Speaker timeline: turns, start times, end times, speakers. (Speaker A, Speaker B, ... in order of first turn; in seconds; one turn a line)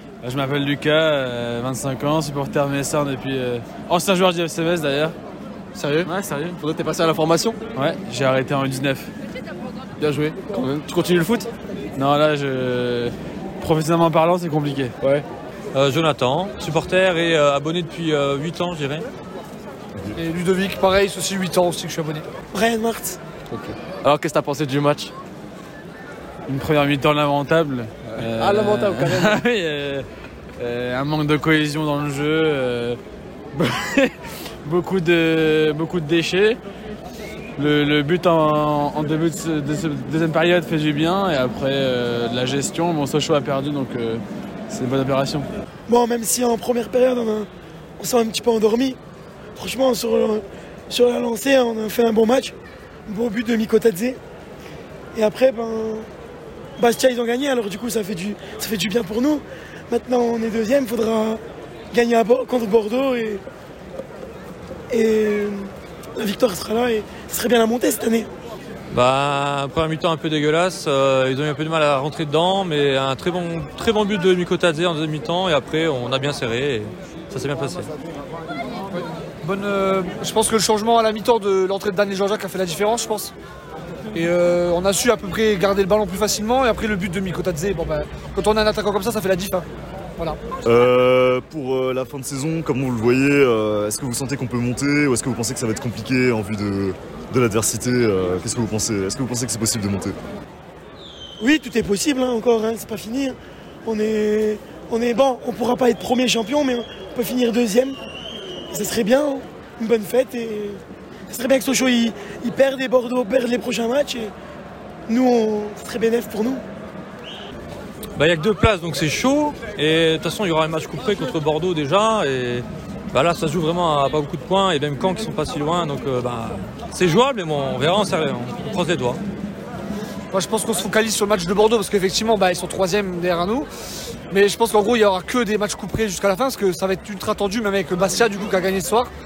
Speaker A: 0.2-5.2
Speaker B: 5.7-7.6
Speaker A: 6.0-6.6
Speaker A: 7.7-9.1
Speaker B: 10.0-11.5
Speaker A: 11.9-14.9
Speaker C: 15.7-19.1
Speaker D: 20.2-22.3
Speaker E: 22.5-23.2
Speaker B: 23.5-25.1
Speaker A: 26.5-30.1
Speaker B: 28.1-29.4
Speaker A: 30.6-33.0
Speaker A: 33.5-36.6
Speaker A: 37.6-45.5
Speaker E: 45.9-49.0
Speaker E: 49.6-52.5
Speaker E: 53.1-54.2
Speaker E: 55.1-56.1
Speaker E: 56.8-61.4
Speaker E: 61.9-63.4
Speaker E: 64.9-68.3
Speaker C: 68.9-77.9
Speaker D: 78.9-83.3
Speaker D: 84.1-89.7
Speaker F: 90.6-100.2
Speaker E: 101.4-108.0
Speaker E: 108.7-114.3
Speaker E: 115.1-116.6
Speaker C: 118.2-129.2
Speaker D: 130.3-133.7
Speaker D: 134.3-139.1